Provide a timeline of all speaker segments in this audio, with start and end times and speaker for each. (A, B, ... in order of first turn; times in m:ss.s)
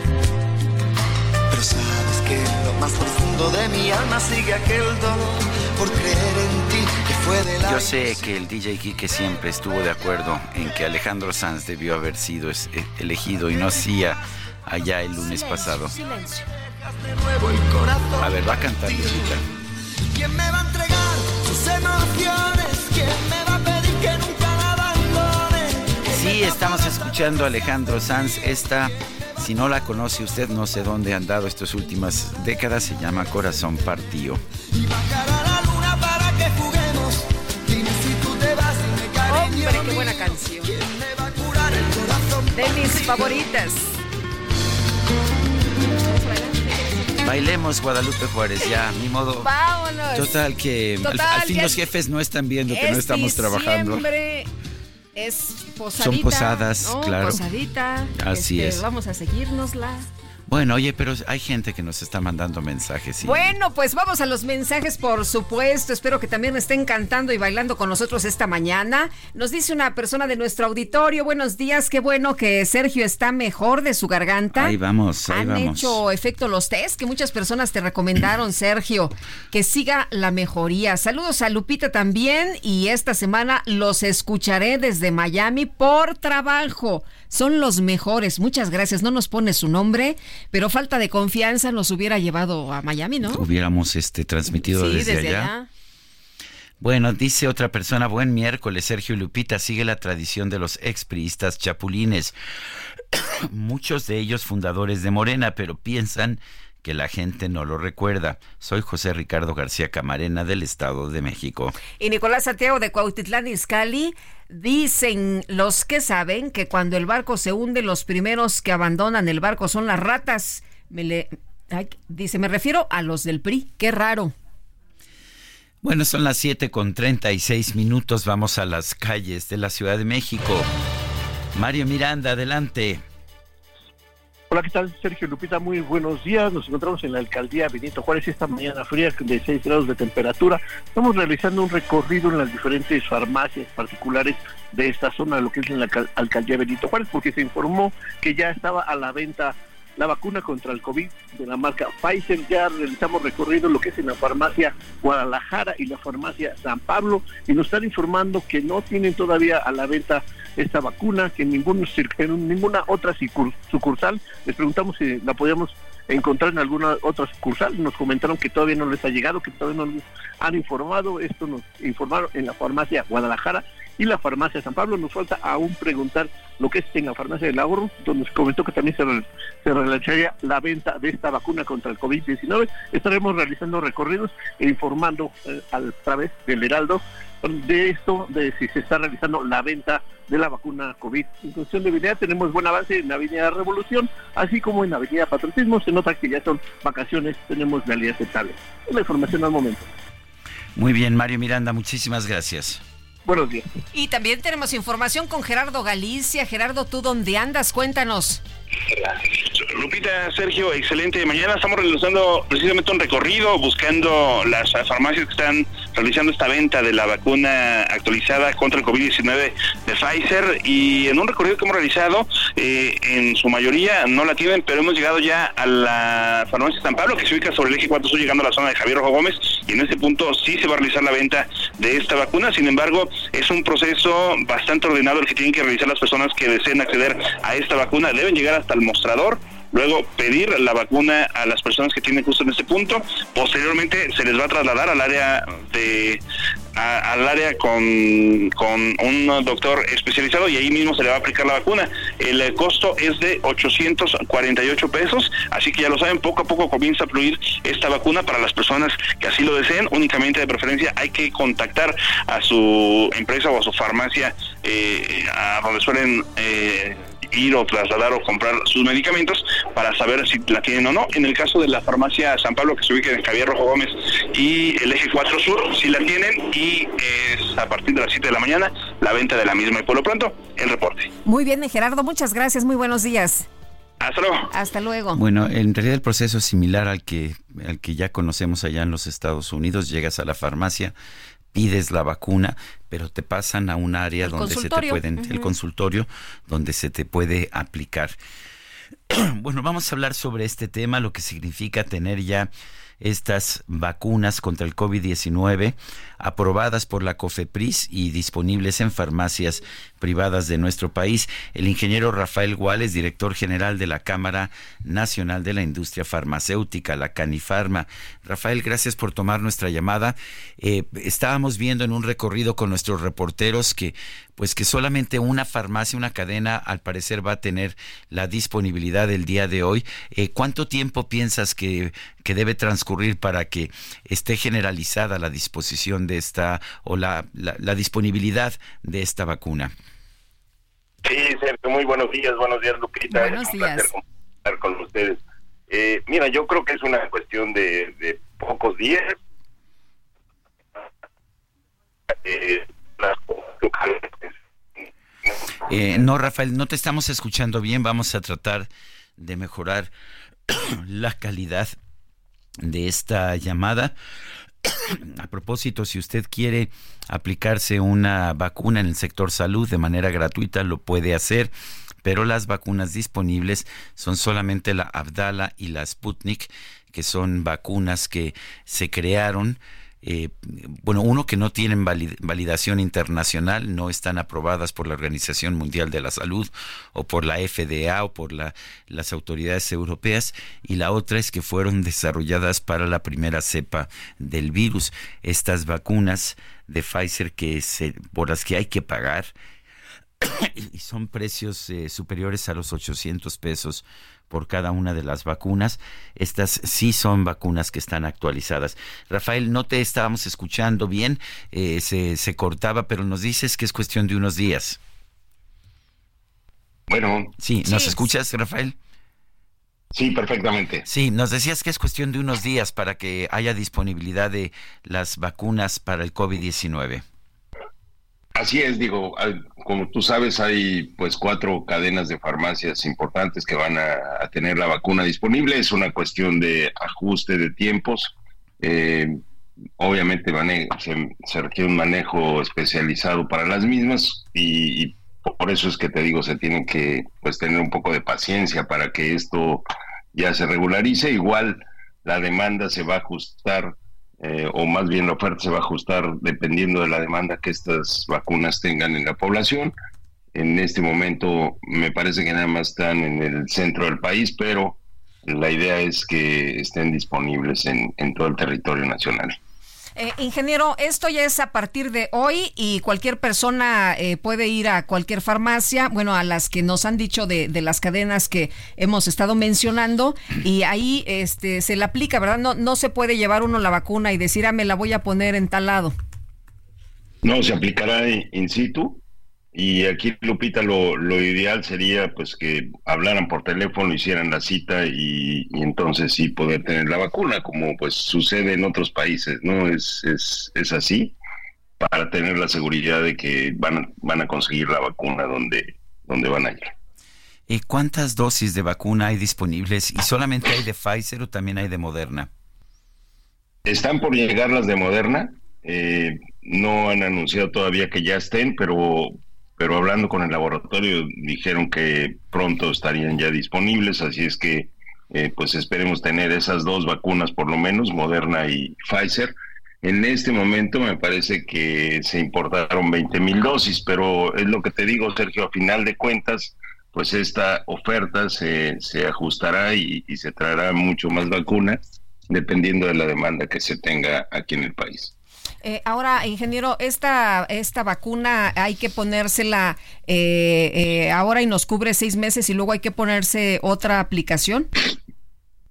0:01.5-0:08.3 A
0:07.6-0:16.0 B
0:13.5-0:14.2 A
0:15.1-0:15.4 A
0:15.2-0:16.5 C
0:16.2-0:19.4 A
0:18.2-0:19.4 B
0:20.1-0:28.9 A
0:26.1-0:34.4 B
0:34.6-0:43.5 A
0:39.3-0:40.8 C
0:42.5-0:44.0 C
0:46.1-0:47.2 C
0:47.2-0:49.5 B
0:49.4-0:50.4 C
0:50.1-0:54.0 B
0:51.0-0:51.8 C
0:52.7-0:54.5 C
0:55.2-1:00.1 C
0:56.0-0:57.4 B
0:58.1-0:58.8 B
1:00.5-1:03.5 B
1:03.2-1:14.8 C
1:14.6-1:16.0 B
1:15.3-1:33.4 C
1:33.2-1:35.5 B
1:34.5-1:35.7 C
1:36.8-1:42.4 B
1:43.2-1:51.8 B
1:52.0-2:04.3 C
2:05.8-2:10.7 B
2:11.5-2:13.0 B
2:14.5-3:19.9 D
3:20.8-3:22.8 B
3:23.3-3:23.7 D
3:23.9-3:28.4 C
3:28.9-4:06.2 E
4:06.8-4:41.1 E
4:41.2-4:43.5 C
4:44.0-4:44.5 E
4:44.5-4:45.2 C
4:45.2-4:51.0 B
4:51.5-4:58.2 B
4:54.2-4:55.5 C
4:59.1-5:02.5 B
5:03.0-5:39.7 B
5:41.1-5:43.9 F
5:43.1-5:43.9 C
5:44.5-5:45.2 F
5:45.7-5:49.1 F
5:52.2-5:54.1 F
5:55.7-5:59.9 B
6:00.5-6:01.8 B
6:02.6-6:03.9 B
6:04.7-6:11.5 B
6:12.0-6:39.3 B
6:40.2-6:54.8 B
6:56.9-6:57.3 F
6:57.4-6:58.8 B
6:59.9-7:00.9 F
7:00.9-7:07.0 B
7:08.4-7:19.2 F
7:19.8-7:39.7 F
7:40.4-7:49.4 F
7:50.0-8:05.9 C
8:07.2-8:09.0 F
8:09.5-8:21.2 F
8:21.8-8:26.7 F
8:27.5-8:32.3 B
8:33.7-9:05.1 F
9:05.6-9:14.7 C